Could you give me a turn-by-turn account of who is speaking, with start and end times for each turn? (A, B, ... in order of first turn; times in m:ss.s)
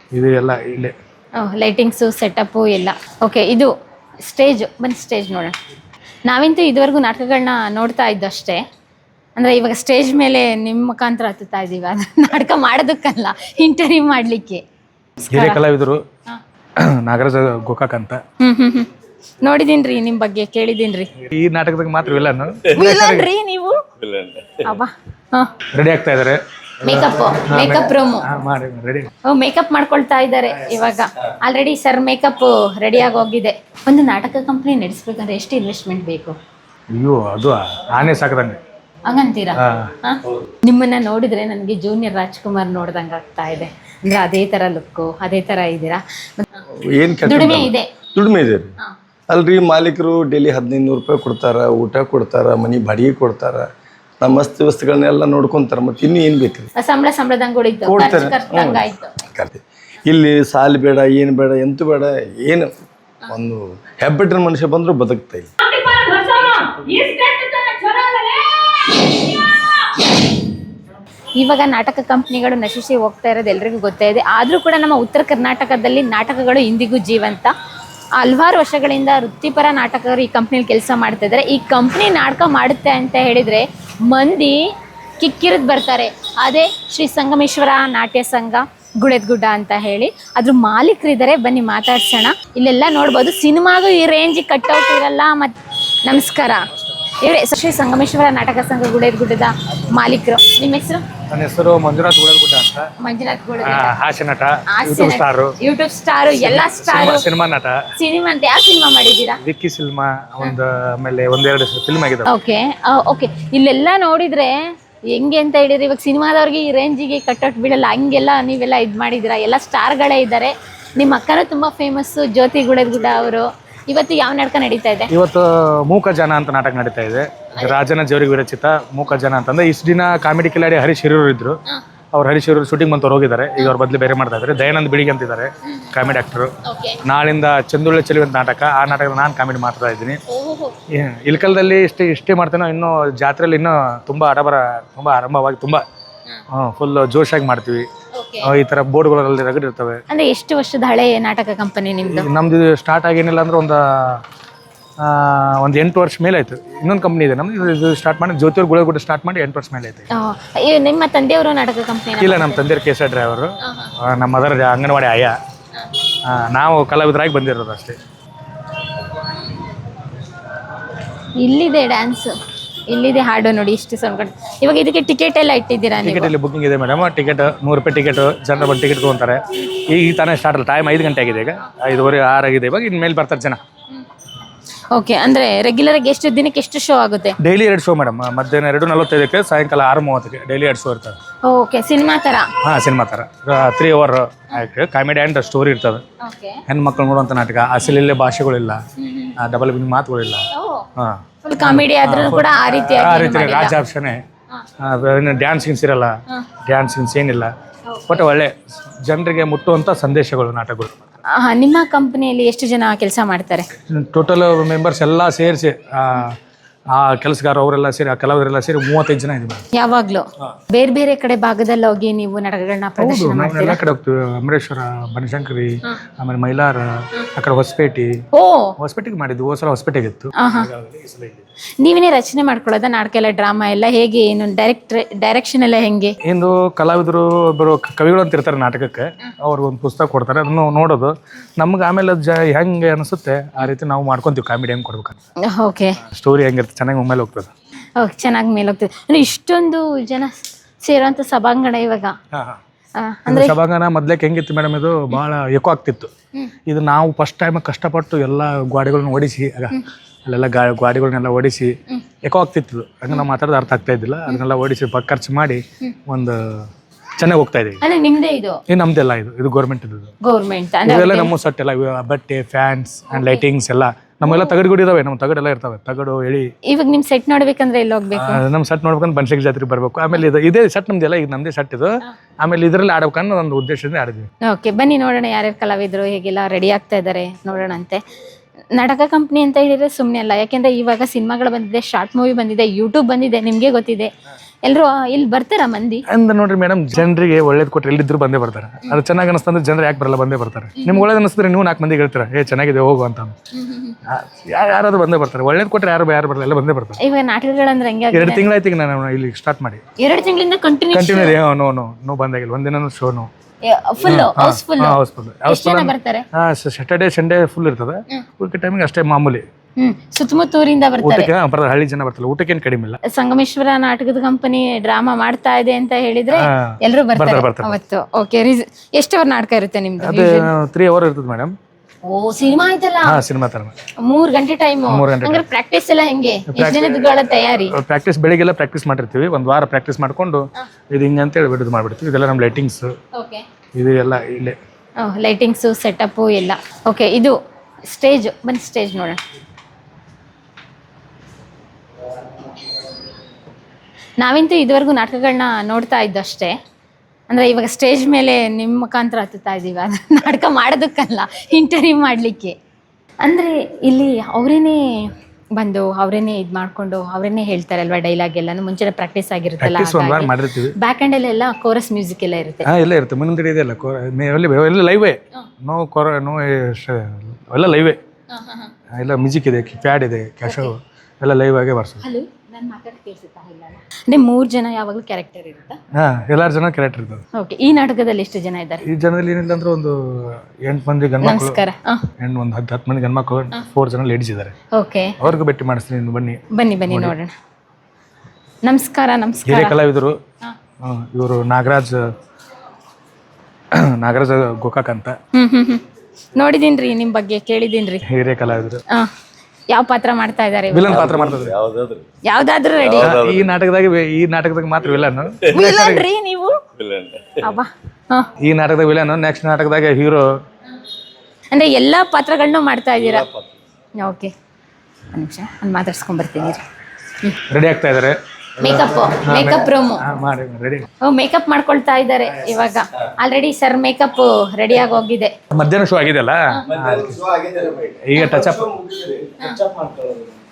0:00.1-0:01.0 A
0:01.4-0:03.7 B
0:04.3-0:05.6 B
0:06.3-0:08.6 B
0:09.4-0:14.6 B
0:15.2-0:15.6 B
0:15.3-0:16.0 A
0:16.8-0:18.2 A
0:18.4-0:18.9 B
0:19.4-0:21.1 B
0:21.2-0:23.3 A
0:22.7-0:23.8 B
0:24.0-0:24.7 C
0:24.6-0:25.5 B
0:25.7-0:29.1 A
0:26.8-0:28.3 B
0:29.2-0:36.4 B
0:36.9-0:38.6 A
0:39.1-0:46.4 B
0:39.6-0:39.9 A
0:46.8-0:48.7 C
0:47.2-0:47.9 B
0:49.3-0:53.7 C
0:54.2-0:56.7 C
0:56.8-0:59.2 B
0:57.8-1:02.7 C
1:03.3-1:05.5 C
1:05.6-1:10.1 B
1:11.4-1:17.5 B
1:18.2-1:24.6 B
1:25.2-1:36.6 B
1:37.2-1:41.0 B
1:41.3-1:42.9 A
1:43.0-1:43.9 B
1:43.6-1:45.5 A
1:44.7-1:47.2 B
1:46.4-1:47.8 A
1:48.0-1:49.4 B
1:49.4-1:52.3 A
1:52.3-1:54.6 B
1:55.1-2:05.1 B
2:05.1-2:11.6 A
2:12.1-2:16.5 A
2:15.6-2:15.9 B
2:16.6-2:17.0 B
2:17.0-2:20.2 A
2:20.3-2:20.7 B
2:20.9-2:25.8 A
2:26.5-2:27.9 A
2:28.2-2:28.5 B
2:28.5-2:30.0 A
2:30.1-2:32.3 B
2:32.1-2:34.2 A
2:35.0-2:40.1 A
2:40.1-2:42.6 B
2:42.2-2:45.4 A
2:43.6-2:43.9 B
2:46.3-2:48.0 A
2:51.4-2:52.3 B
2:52.9-2:56.3 B
2:56.0-3:03.6 A
3:04.9-3:07.4 B
3:07.4-3:11.2 A
3:11.4-3:12.5 B
3:12.6-3:16.0 A
3:16.2-3:16.6 B
3:16.7-3:18.8 A
3:19.0-3:19.4 B
3:19.4-3:20.5 A
3:20.5-3:20.9 B
3:21.0-3:24.2 A
3:21.4-3:23.8 B
3:24.8-3:26.1 A
3:26.7-3:27.5 A
3:27.9-3:28.2 B
3:28.1-3:28.5 A
3:29.0-3:30.9 A
3:31.3-3:33.7 B
3:33.9-3:36.4 A
3:36.9-3:39.6 A
3:39.7-3:43.8 B
3:43.0-3:48.2 A
3:48.3-3:48.7 B
3:48.8-3:51.4 A
3:50.4-3:50.7 B
3:51.8-3:56.2 B
3:56.2-4:05.2 A
4:05.5-4:06.0 B
4:06.0-4:07.5 A
4:08.0-4:12.1 B
4:12.3-4:12.6 A
4:13.0-4:13.6 B
4:13.3-4:16.1 A
4:16.7-4:26.7 A
4:27.2-4:27.8 A
4:27.8-4:28.6 B
4:28.7-4:30.1 A
4:30.2-4:31.3 B
4:30.8-4:36.5 A
4:33.1-4:33.4 B
4:34.2-4:34.6 B
4:36.7-4:38.4 B
4:38.2-4:44.3 A
4:44.4-4:48.0 B
4:48.7-4:54.1 B
4:54.6-4:56.0 B
4:56.1-5:03.3 A
5:00.8-5:01.1 B
5:03.5-5:04.0 B
5:04.1-5:07.0 A
5:07.0-5:08.5 B
5:08.1-5:09.8 A
5:10.0-5:11.4 B
5:10.9-5:13.3 A
5:13.6-5:16.2 B
5:14.1-5:19.4 A
5:19.8-5:21.3 B
5:21.0-5:23.0 A
5:23.0-5:30.5 B
5:26.4-5:27.8 A
5:30.0-5:31.6 A
5:32.1-5:33.2 B
5:33.1-5:33.7 A
5:34.0-5:37.7 B
5:34.9-5:35.4 A
5:36.6-5:37.0 A
5:37.7-5:42.9 A
5:43.1-5:43.4 B
5:43.8-5:44.6 A
5:45.0-5:49.2 B
5:54.2-5:56.6 B
5:57.3-6:02.6 B
6:03.2-6:12.7 B
6:09.6-6:10.8 A
6:12.7-6:18.0 A
6:18.3-6:18.7 B
6:18.9-6:22.0 A
6:20.5-6:20.7 B
6:22.0-6:25.8 B
6:26.0-6:27.2 A
6:27.4-6:28.8 B
6:28.9-6:31.6 A
6:31.2-6:32.1 B
6:32.2-6:34.5 A
6:34.7-6:35.2 B
6:35.2-6:37.2 A
6:36.5-6:37.3 B
6:38.6-6:39.8 B
6:39.5-6:40.2 A
6:40.8-6:42.0 A
6:43.8-6:45.2 A
6:45.3-6:45.8 B
6:46.4-6:48.0 B
6:48.1-6:48.8 A
6:49.7-6:51.1 B
6:50.7-6:51.6 A
6:50.9-6:52.1 C
6:52.2-6:53.2 B
6:52.8-6:53.6 C
6:53.0-6:56.1 A
6:55.5-6:56.6 B
6:56.8-6:57.6 C
6:57.4-6:58.3 B
6:58.4-7:00.2 A
7:01.5-7:03.2 B
7:03.0-7:03.6 C
7:04.0-7:04.3 B
7:05.1-7:06.6 B
7:07.5-7:08.2 A
7:08.6-7:10.0 B
7:08.7-7:10.9 A
7:11.0-7:15.3 B
7:15.5-7:17.2 A
7:16.7-7:20.3 C
7:18.0-7:18.7 A